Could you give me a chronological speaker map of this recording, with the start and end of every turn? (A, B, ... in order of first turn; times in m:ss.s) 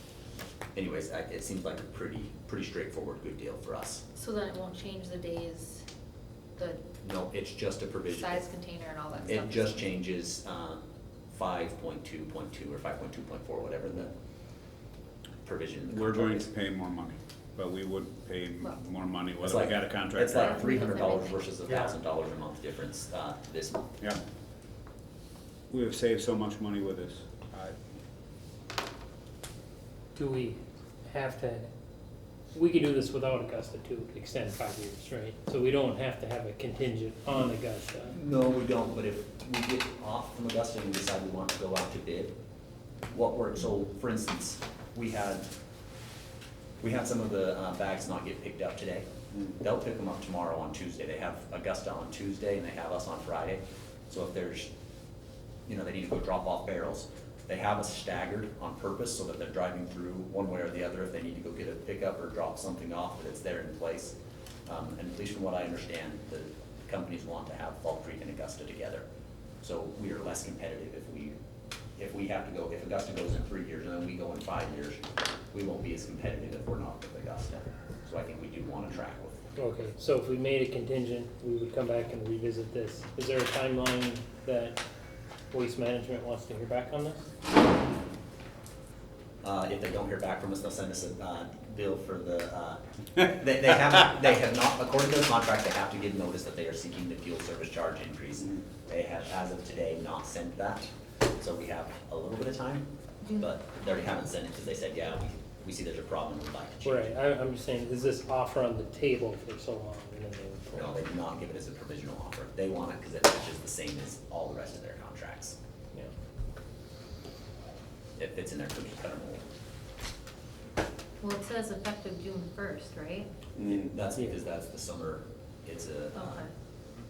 0:00.7-0:04.0 A
0:04.1-0:05.8 B
0:06.6-0:06.8 B
0:07.0-0:08.5 A
0:08.1-0:09.9 B
0:09.2-0:14.1 A
0:15.4-0:16.5 A
0:15.9-0:20.6 C
0:19.4-0:23.9 A
0:20.4-0:21.5 B
0:25.7-0:27.8 C
0:30.1-0:31.7 D
0:32.5-0:38.2 D
0:38.0-0:42.4 A
0:43.1-0:45.5 A
0:46.8-0:54.7 A
0:55.6-1:09.0 A
1:09.6-1:11.4 A
1:12.0-1:19.4 A
1:19.6-1:24.8 D
1:25.5-1:27.3 D
1:29.4-1:47.1 A
1:46.8-1:51.0 D
1:50.7-1:55.6 A
1:58.2-1:59.4 A
2:01.2-2:03.3 B
2:03.6-2:03.9 C
2:03.6-2:06.5 A
2:06.1-2:06.5 B